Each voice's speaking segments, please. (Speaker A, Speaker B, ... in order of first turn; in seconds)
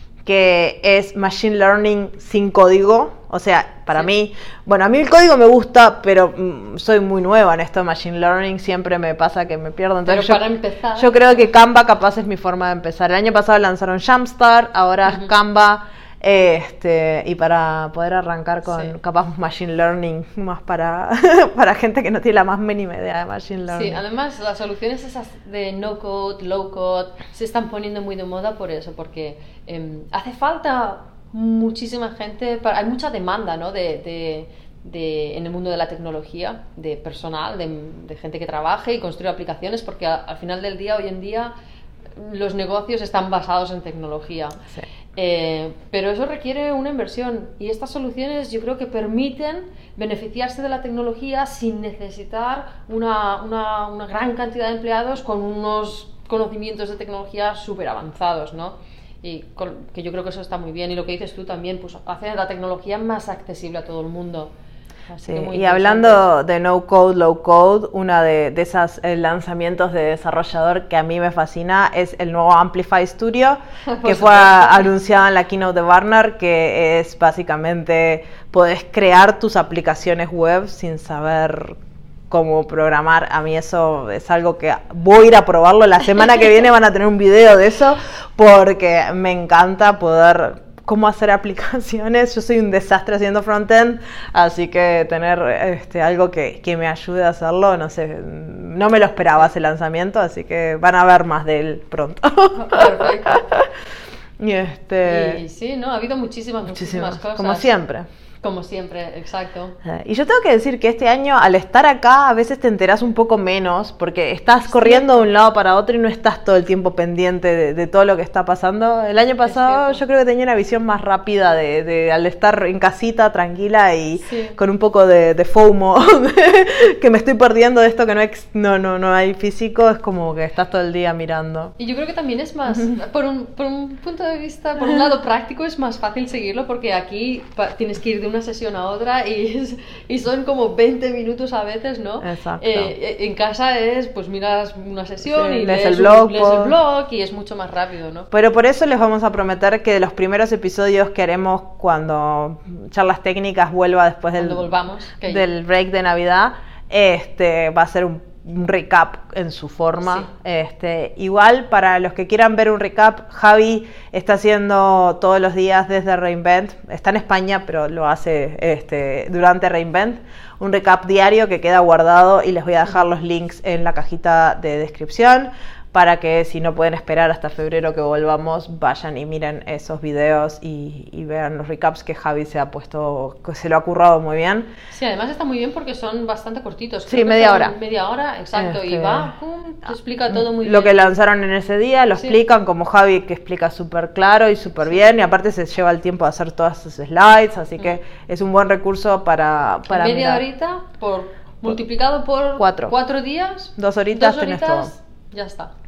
Speaker A: 0.3-10.4, 11.0-24.0, 65.3-81.8, 82.3-103.3, 104.4-105.4, 106.7-108.1, 109.8-131.7, 132.7-133.0, 142.2-142.9, 145.3-146.8, 148.3-154.7, 155.2-184.7, 187.1-187.8, 188.6-189.3, 190.3-200.4, 202.6-202.9, 203.8-204.9
Speaker B: 10.1-11.5, 18.7-18.9, 23.7-41.5, 42.1-44.6, 45.1-64.5, 65.1-66.3, 73.9-74.9, 102.6-103.6, 105.0-107.7, 108.4-109.8, 114.7-115.3, 119.4-120.0, 124.2-124.6, 131.8-148.3, 154.4-155.5, 184.9-191.1, 199.9-205.7